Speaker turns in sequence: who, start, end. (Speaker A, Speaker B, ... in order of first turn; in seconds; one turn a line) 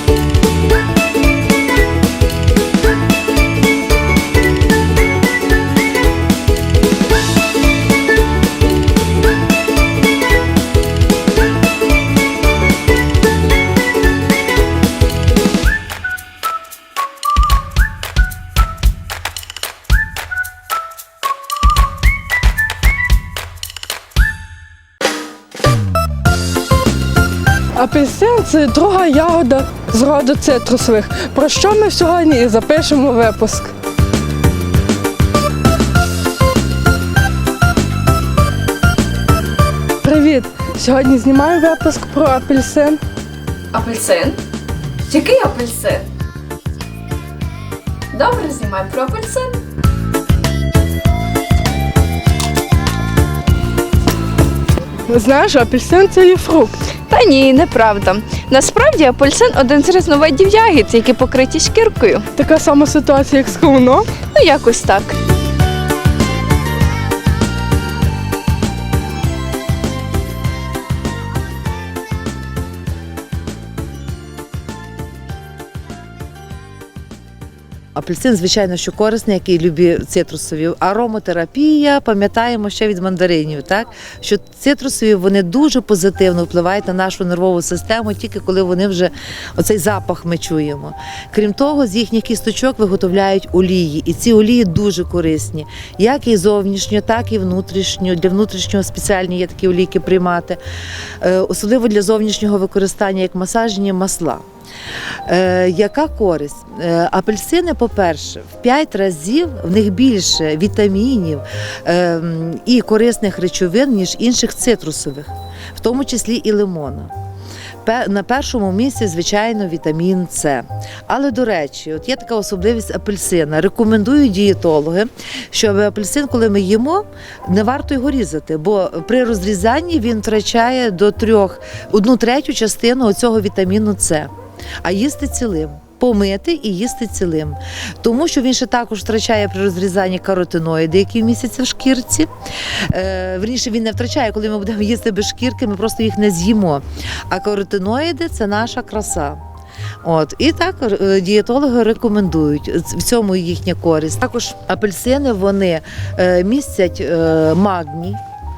Speaker A: 27.8-33.7
Speaker A: 40.0-43.0
Speaker B: 43.7-44.4
Speaker B: 45.1-46.1
Speaker B: 48.1-49.6
Speaker A: 55.1-56.8
Speaker B: 57.0-62.3
Speaker A: 62.4-64.1
Speaker B: 64.3-65.2
Speaker C: 78.0-100.6
Speaker C: 101.2-104.4
Speaker C: 105.3-117.1
Speaker C: 117.8-134.3
Speaker C: 134.8-142.3
Speaker C: 142.9-149.4
Speaker C: 150.0-158.2